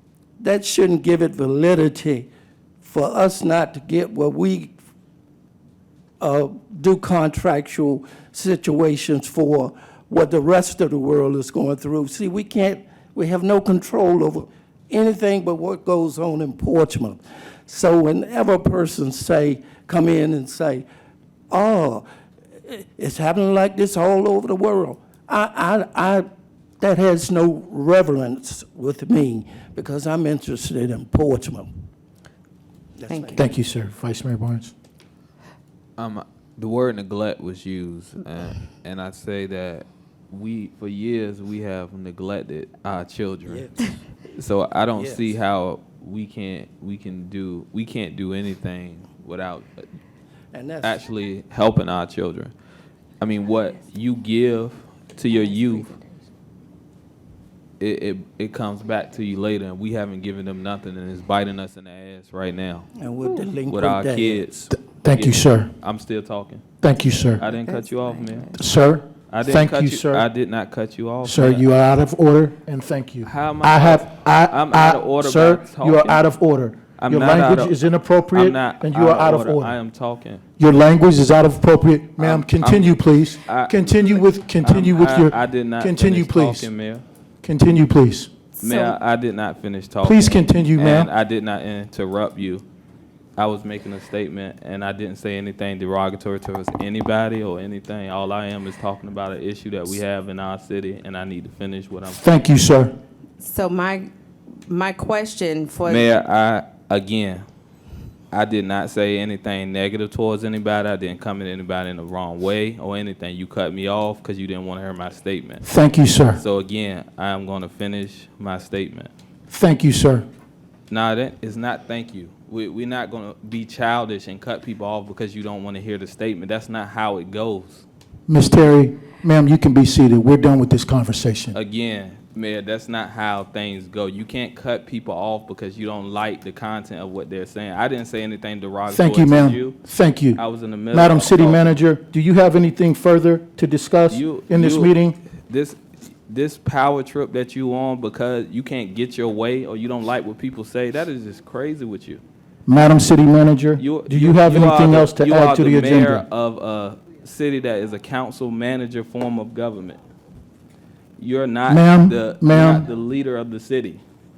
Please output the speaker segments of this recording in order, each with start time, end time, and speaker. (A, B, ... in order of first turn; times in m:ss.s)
0:00.4-0:02.3 A
0:02.8-0:04.7 A
0:06.2-0:20.8 A
0:21.5-0:22.0 A
0:22.6-0:26.3 A
0:26.8-0:31.7 A
0:33.0-0:33.5 A
0:33.1-0:33.4 B
0:33.3-0:34.7 C
0:36.0-0:43.7 D
0:43.4-0:44.0 A
0:44.3-0:49.8 D
0:44.9-0:45.4 A
0:50.5-0:51.0 A
0:50.8-0:52.5 D
0:53.2-0:56.0 D
0:57.8-1:02.9 D
1:03.0-1:04.6 A
1:03.7-1:06.6 D
1:04.8-1:05.7 C
1:06.8-1:07.4 C
1:07.4-1:08.5 D
1:07.4-1:08.5 B
1:08.5-1:10.2 C
1:09.3-1:11.7 D
1:11.2-1:19.7 C
1:13.2-1:16.2 D
1:17.0-1:17.8 D
1:18.3-1:20.4 D
1:20.6-1:26.7 C
1:22.2-1:27.0 D
1:27.4-1:28.3 C
1:28.6-1:29.0 B
1:28.6-1:32.6 D
1:30.0-1:31.1 C
1:33.4-1:42.2 D
1:42.1-1:42.9 C
1:43.4-1:44.1 B
1:44.6-1:46.1 B
1:45.8-1:47.4 D
1:48.3-1:55.7 D
1:55.6-1:56.4 C
1:56.4-1:59.1 D
1:59.5-2:00.2 C
2:00.9-2:07.8 D
2:08.3-2:11.6 C
2:11.5-2:19.8 D
2:18.9-2:20.4 C
2:20.3-2:21.8 D
2:20.9-2:25.2 C
2:24.1-2:32.2 D
2:32.7-2:36.2 C
2:33.8-2:40.0 D
2:41.2-2:44.0 D
2:41.7-2:42.9 C